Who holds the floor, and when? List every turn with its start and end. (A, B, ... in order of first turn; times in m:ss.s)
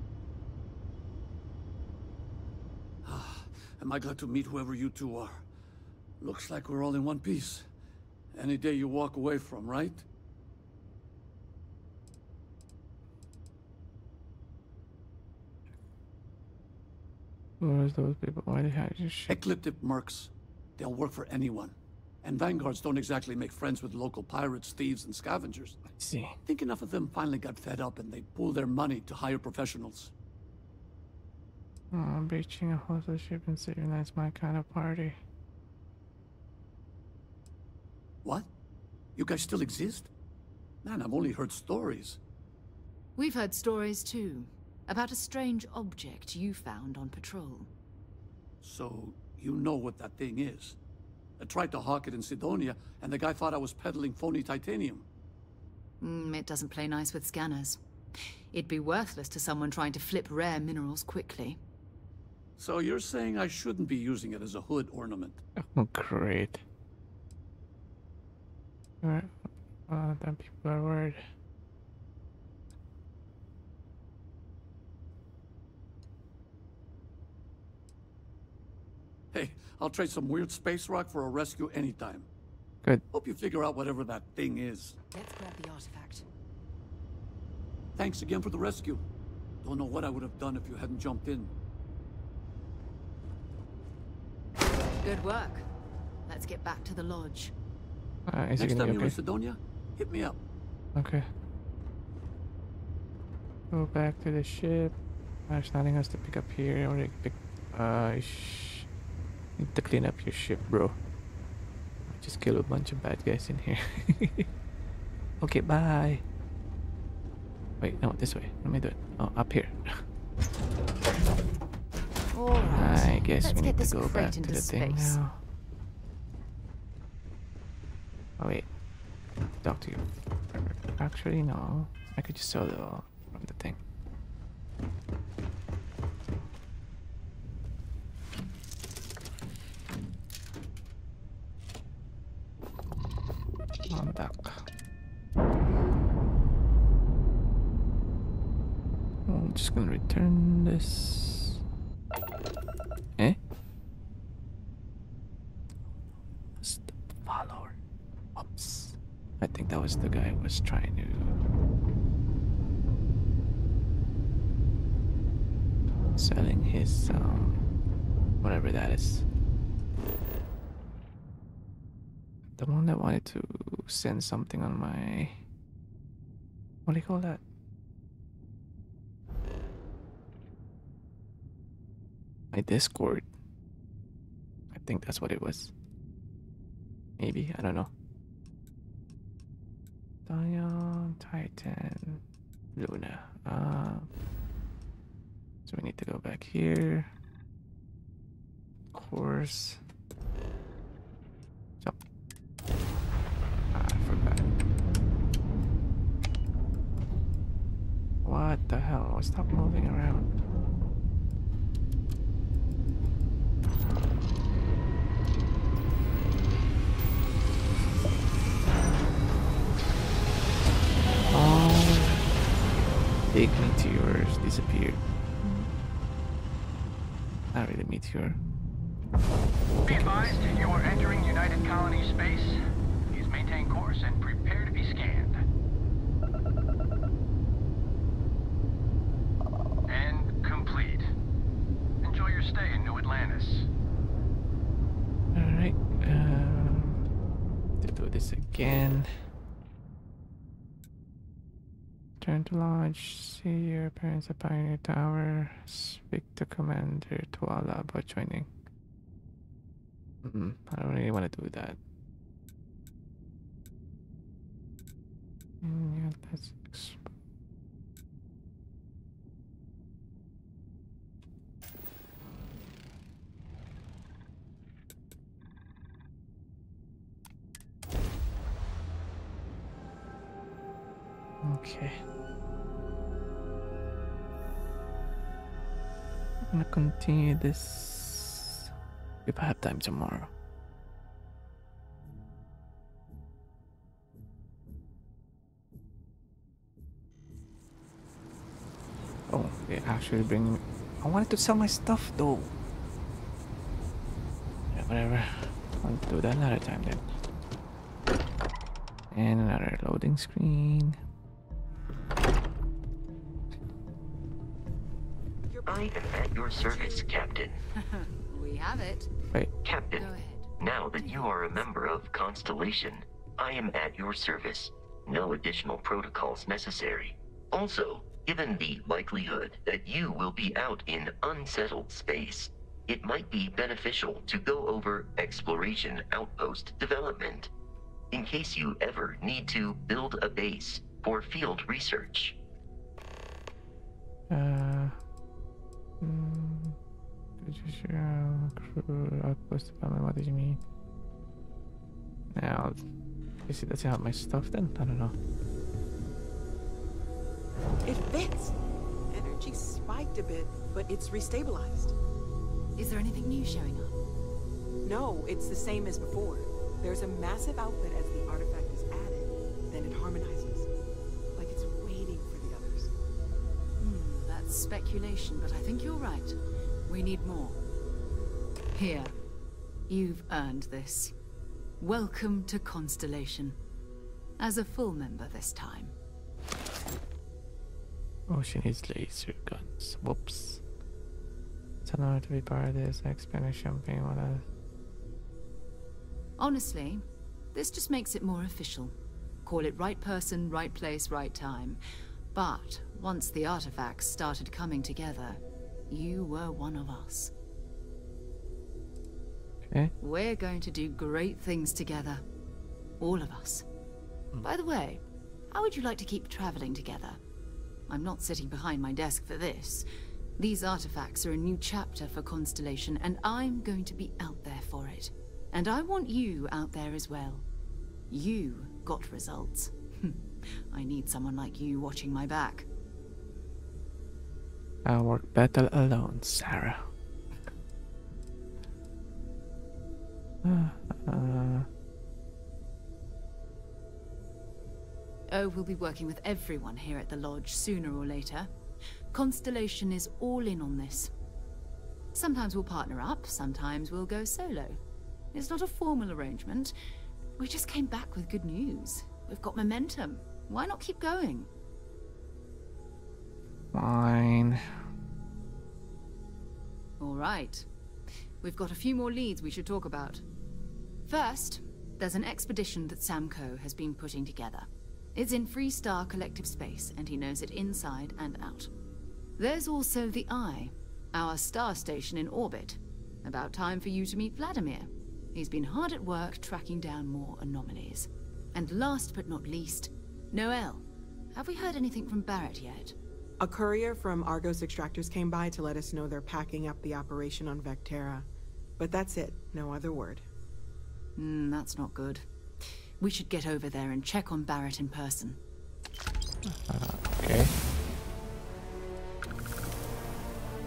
0:03.0-0:05.5 A
0:06.2-0:07.7 A
0:08.3-0:10.0 A
0:17.6-0:19.4 B
0:19.3-0:25.8 A
0:26.0-0:26.4 B
0:26.4-0:30.1 A
0:31.9-0:35.2 B
0:38.2-0:38.5 A
0:39.2-0:40.1 A
0:40.8-0:42.2 A
0:43.2-0:47.7 C
0:48.6-0:50.8 A
0:51.4-0:55.1 A
0:56.0-0:57.8 C
0:58.5-1:01.6 C
1:02.6-1:05.4 A
1:05.6-1:06.6 B
1:09.0-1:11.2 B
1:19.3-1:22.3 A
1:23.1-1:25.0 A
1:25.1-1:26.3 C
1:28.0-1:29.0 A
1:29.6-1:31.5 A
1:35.0-1:35.7 C
1:36.3-1:37.5 C
1:38.3-1:39.2 B
1:38.6-1:40.4 A
1:41.0-1:41.3 B
1:43.7-1:45.0 B
1:45.5-1:48.9 B
1:49.6-1:51.0 B
1:52.1-1:54.5 B
1:55.4-1:56.2 B
1:57.8-2:00.0 B
2:02.3-2:05.2 C
2:02.8-2:05.4 B
2:08.4-2:08.7 B
2:09.6-2:13.8 B
2:23.9-2:24.6 B
2:29.3-2:31.6 B
2:36.6-2:37.8 B
2:38.4-2:41.4 B
2:46.2-2:47.6 B
2:48.4-2:49.3 B
2:52.6-2:55.4 B
2:56.9-2:57.4 B
3:02.5-3:03.3 B
3:04.7-3:05.7 B
3:07.2-3:07.9 B
3:10.3-3:12.2 B
3:12.8-3:14.1 B
3:15.7-3:17.1 B
3:18.9-3:19.8 B
3:23.7-3:24.6 B
3:28.2-3:30.4 B
3:41.3-3:42.2 B
3:43.3-3:45.7 B
3:47.5-3:48.4 B
3:49.9-3:50.4 B
3:49.9-3:52.6 D
3:53.1-3:55.4 D
3:59.9-4:01.0 D
4:02.0-4:03.7 D
4:05.3-4:07.0 B
4:07.8-4:09.2 B
4:12.2-4:18.5 B
4:20.2-4:21.8 B
4:25.6-4:27.1 B
4:41.4-4:42.0 B
4:46.5-4:48.7 B
4:49.2-4:50.3 B
4:59.3-5:02.5 B
5:04.7-5:07.1 B
5:09.1-5:11.0 B
5:15.6-5:17.6 E
5:17.8-5:19.1 C
5:19.6-5:37.5 E
5:19.9-5:20.5 C
5:38.1-5:42.4 E
5:44.3-5:45.0 B
5:46.0-5:46.8 B
5:47.4-5:50.6 B
5:52.3-5:52.8 B
5:53.5-5:55.2 B
5:57.9-5:58.6 F
5:59.1-6:02.0 F
6:02.8-6:04.0 C
6:04.8-6:10.7 F
6:11.4-6:12.9 F
6:13.8-6:17.6 C
6:18.7-6:19.1 C
6:19.9-6:21.2 C
6:21.8-6:23.6 C
6:24.4-6:26.0 C
6:28.3-6:30.6 B
6:31.8-6:34.4 B
6:36.4-6:38.9 C
6:39.5-6:41.8 C
6:42.3-6:47.3 C
6:49.7-6:49.9 B
6:50.0-6:52.2 C
6:53.0-6:53.7 C
6:54.4-6:57.2 C
6:57.9-6:59.9 C
7:00.4-7:07.5 C
7:08.1-7:12.7 C
7:14.8-7:16.9 B
7:20.4-7:21.7 B
7:25.3-7:28.5 C
7:29.1-7:31.1 C
7:32.2-7:34.8 C
7:35.3-7:36.8 C
7:37.4-7:41.5 C
7:43.7-7:44.6 B
7:47.0-7:47.7 C
7:48.4-7:50.2 C
7:51.1-7:58.7 C
7:59.4-8:13.0 C
8:13.4-8:20.2 F
8:21.2-8:22.3 C
8:23.0-8:25.4 C
8:26.5-8:27.6 B